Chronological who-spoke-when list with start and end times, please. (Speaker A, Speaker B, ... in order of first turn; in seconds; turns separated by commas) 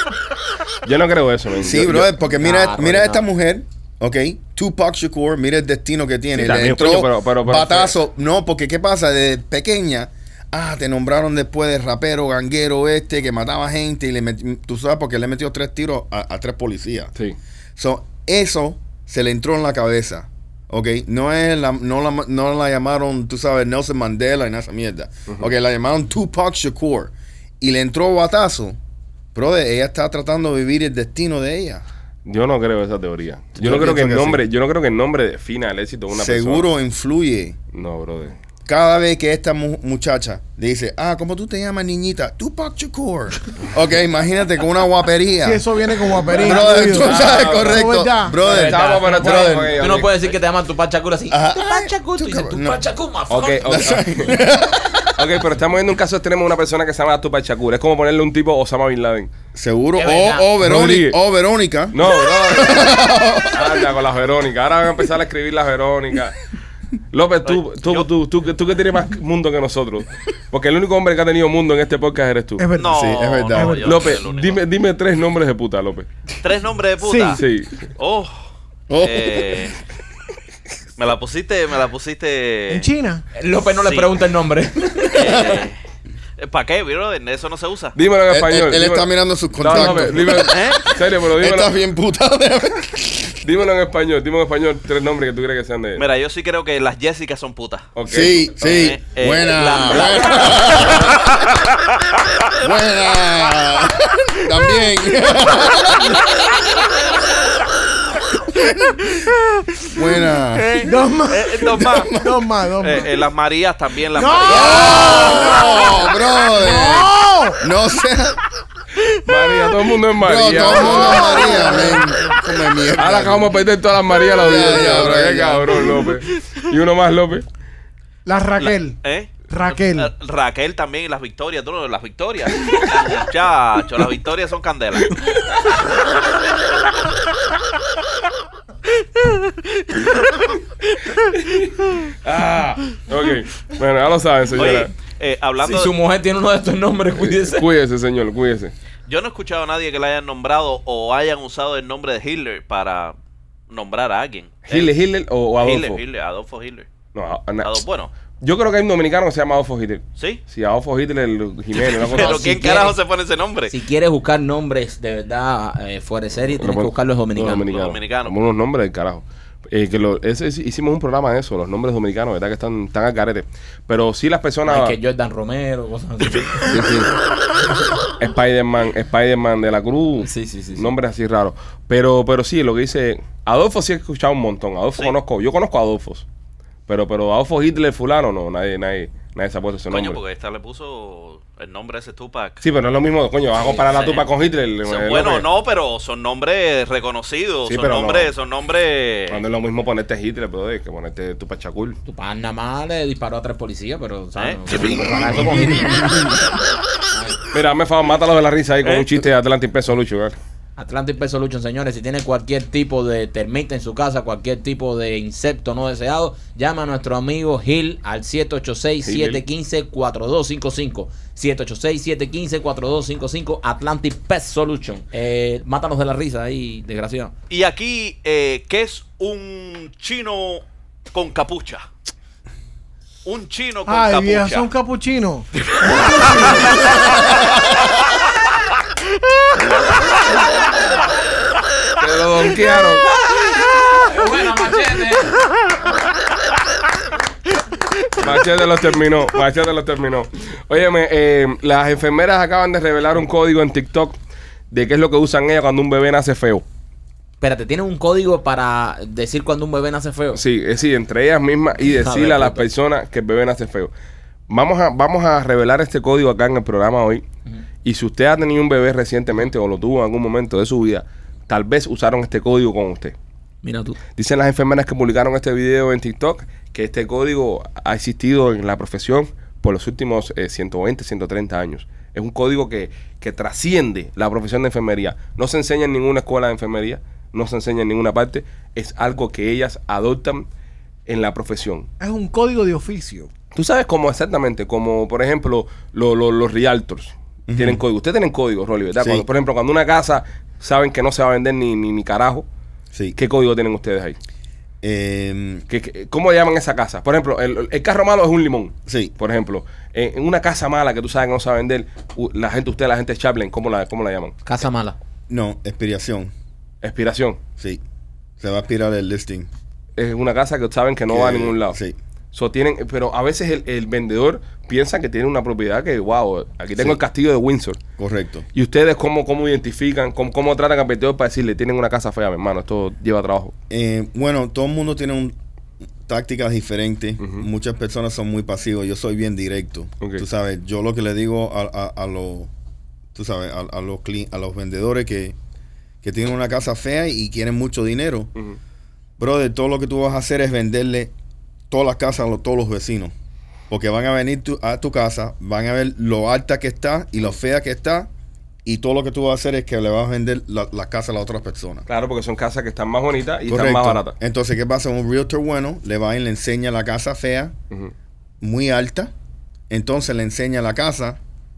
Speaker A: 0.8-2.1, Speaker B: 1.6-17.1, Speaker C: 2.3-3.3, Speaker A: 6.3-7.9, Speaker B: 17.8-28.8, Speaker B: 29.3-31.8, Speaker A: 32.3-36.7, Speaker B: 33.6-34.4, Speaker B: 36.1-37.6, Speaker A: 37.7-38.4, Speaker B: 38.7-49.9, Speaker D: 45.4-48.7, Speaker A: 46.5-47.9, Speaker C: 48.4-54.0, Speaker A: 48.5-50.3, Speaker B: 51.3-52.8, Speaker A: 53.3-54.4, Speaker B: 53.6-55.2, Speaker A: 55.1-59.3, Speaker B: 59.5-63.8, Speaker C: 60.0-60.5, Speaker A: 60.6-61.2, Speaker A: 61.9-66.4, Speaker A: 67.1-72.7, Speaker E: 67.5-68.1, Speaker D: 72.6-74.1, Speaker E: 72.8-74.6, Speaker B: 72.9-73.8, Speaker A: 73.8-76.1, Speaker E: 76.4-77.4, Speaker D: 77.0-77.4, Speaker A: 77.3-77.9, Speaker E: 77.9-78.4, Speaker B: 78.9-79.7, Speaker E: 79.0-79.8, Speaker E: 81.0-82.9, Speaker D: 82.7-83.2, Speaker C: 83.3-85.6, Speaker E: 83.8-84.1, Speaker E: 85.1-85.8, Speaker E: 86.4-88.0, Speaker A: 88.0-89.1, Speaker B: 88.3-93.4, Speaker A: 89.6-91.8, Speaker E: 90.4-90.8, Speaker A: 93.4-96.0, Speaker E: 96.0-97.9, Speaker A: 98.0-98.7, Speaker B: 98.1-101.3, Speaker E: 98.6-101.6, Speaker B: 102.5-107.0, Speaker B: 108.5-109.1, Speaker B: 109.9-110.8, Speaker E: 110.6-112.2, Speaker D: 110.8-113.2, Speaker B: 111.8-112.4, Speaker E: 112.8-115.5, Speaker D: 114.1-117.6, Speaker B: 114.5-118.4, Speaker A: 119.2-121.5, Speaker B: 120.2-123.5, Speaker D: 120.6-122.1, Speaker A: 123.0-127.5, Speaker B: 124.3-125.9, Speaker D: 128.3-130.1, Speaker E: 128.6-135.1, Speaker A: 142.1-144.9, Speaker E: 144.6-145.9, Speaker C: 145.6-147.7, Speaker A: 147.2-148.7, Speaker E: 149.1-153.2, Speaker E: 153.7-154.9, Speaker A: 154.7-156.0, Speaker E: 155.6-156.9, Speaker A: 157.1-157.8, Speaker E: 157.6-158.1, Speaker A: 158.4-162.5, Speaker E: 161.7-163.7, Speaker C: 162.2-163.0, Speaker C: 163.7-167.7, Speaker A: 166.6-175.0, Speaker E: 167.5-168.3, Speaker C: 174.7-176.9, Speaker A: 176.7-177.1, Speaker A: 178.2-186.3, Speaker C: 180.2-180.9, Speaker A: 186.9-190.2, Speaker E: 189.9-192.6, Speaker A: 192.6-195.5, Speaker C: 193.6-194.2, Speaker E: 194.8-199.4, Speaker A: 197.7-198.3, Speaker A: 199.3-202.0, Speaker C: 202.1-206.4, Speaker E: 204.4-205.3, Speaker C: 207.1-207.4, Speaker A: 207.5-210.4, Speaker E: 208.8-209.1, Speaker C: 210.8-227.3, Speaker A: 219.1-219.4, Speaker E: 227.5-231.8, Speaker E: 233.2-234.7, Speaker D: 233.9-236.9, Speaker A: 242.0-243.1, Speaker C: 243.7-245.4, Speaker A: 248.2-254.2, Speaker A: 254.7-256.6, Speaker C: 257.4-260.4, Speaker A: 260.3-263.9, Speaker C: 261.9-262.6, Speaker A: 264.5-267.2, Speaker A: 267.8-273.1, Speaker C: 273.6-274.0, Speaker A: 274.2-290.5, Speaker A: 291.1-291.9, Speaker D: 292.0-293.3, Speaker A: 293.5-302.5, Speaker B: 297.5-297.8, Speaker B: 299.0-299.2, Speaker A: 303.2-304.2, Speaker B: 304.8-305.6, Speaker A: 305.7-314.4, Speaker B: 308.9-309.1, Speaker C: 314.4-315.0, Speaker B: 315.3-316.3, Speaker A: 316.8-317.4, Speaker B: 318.4-319.5, Speaker A: 320.0-321.8, Speaker B: 321.1-322.0, Speaker A: 322.3-327.8, Speaker B: 328.0-328.5, Speaker A: 328.5-333.5, Speaker B: 333.7-335.4, Speaker B: 336.1-342.5, Speaker A: 337.2-337.5, Speaker B: 343.1-345.4, Speaker B: 346.0-348.3, Speaker B: 349.2-351.1, Speaker B: 351.7-353.1, Speaker B: 353.7-358.1, Speaker B: 358.6-361.9, Speaker A: 361.9-364.1, Speaker B: 363.5-367.6, Speaker B: 368.4-369.1, Speaker B: 369.7-371.2